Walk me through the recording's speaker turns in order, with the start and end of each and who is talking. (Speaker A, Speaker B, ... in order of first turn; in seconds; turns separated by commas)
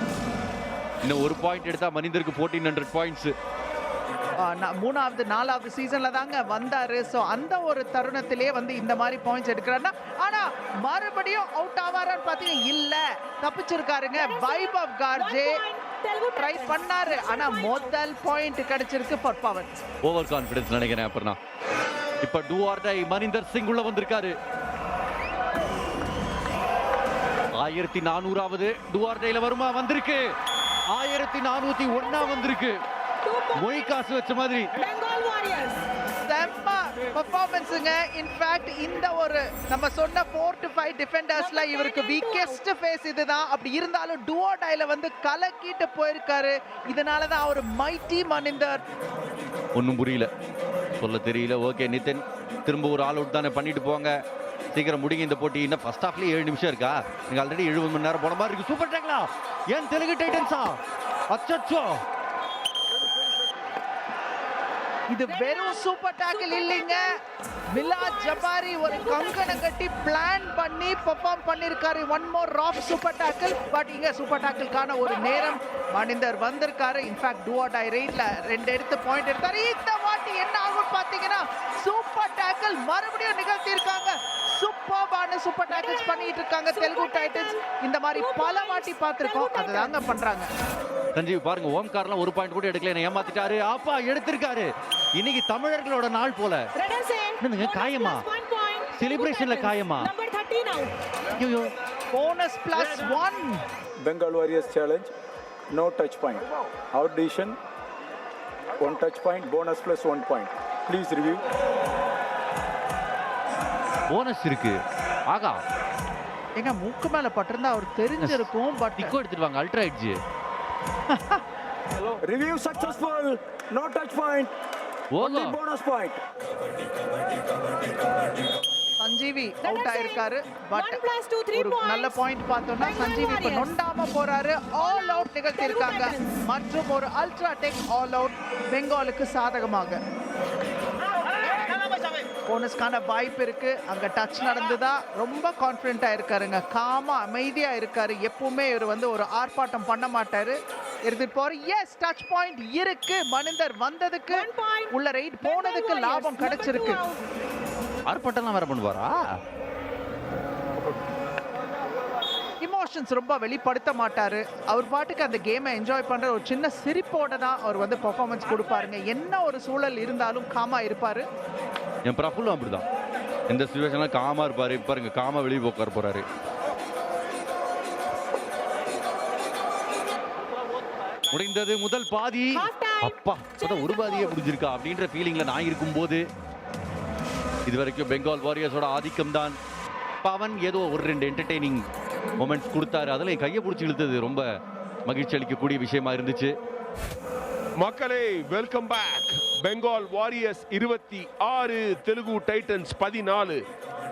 Speaker A: 1.0-3.3, Speaker B: 4.4-15.6, Speaker C: 14.1-17.9, Speaker B: 16.4-19.7, Speaker A: 20.0-21.4, Speaker A: 22.2-24.4, Speaker A: 27.6-30.3, Speaker A: 30.9-32.8, Speaker C: 31.9-32.4, Speaker C: 33.2-34.0, Speaker A: 33.6-34.7, Speaker C: 34.7-35.8, Speaker B: 36.3-48.8, Speaker C: 41.3-42.6, Speaker A: 49.7-50.3, Speaker A: 51.0-54.2, Speaker A: 54.7-60.8, Speaker A: 61.3-62.0, Speaker B: 65.1-67.1, Speaker C: 65.3-67.1, Speaker B: 67.7-90.5, Speaker C: 67.7-69.6, Speaker C: 85.7-89.9, Speaker A: 91.1-96.7, Speaker C: 96.8-100.9, Speaker A: 97.4-98.2, Speaker A: 99.0-100.1, Speaker A: 101.4-101.7, Speaker B: 102.1-103.6, Speaker D: 104.0-105.1, Speaker D: 105.7-107.6, Speaker D: 108.8-111.4, Speaker A: 114.1-115.6, Speaker B: 116.6-119.1, Speaker A: 118.2-118.5, Speaker A: 119.0-120.2, Speaker B: 121.1-121.4, Speaker D: 122.2-124.5, Speaker A: 125.1-125.6, Speaker D: 125.2-126.2, Speaker B: 129.0-131.0, Speaker C: 129.6-132.2, Speaker B: 131.5-140.0, Speaker C: 132.8-133.7, Speaker C: 134.8-136.4, Speaker B: 142.5-157.0, Speaker C: 154.3-157.2, Speaker A: 158.1-159.2, Speaker B: 162.6-171.2, Speaker A: 172.1-172.8, Speaker A: 173.5-176.2, Speaker A: 181.3-186.2, Speaker C: 182.5-184.3, Speaker A: 187.7-189.6, Speaker A: 190.2-191.8, Speaker A: 192.4-194.4, Speaker A: 195.1-196.6, Speaker E: 197.8-203.6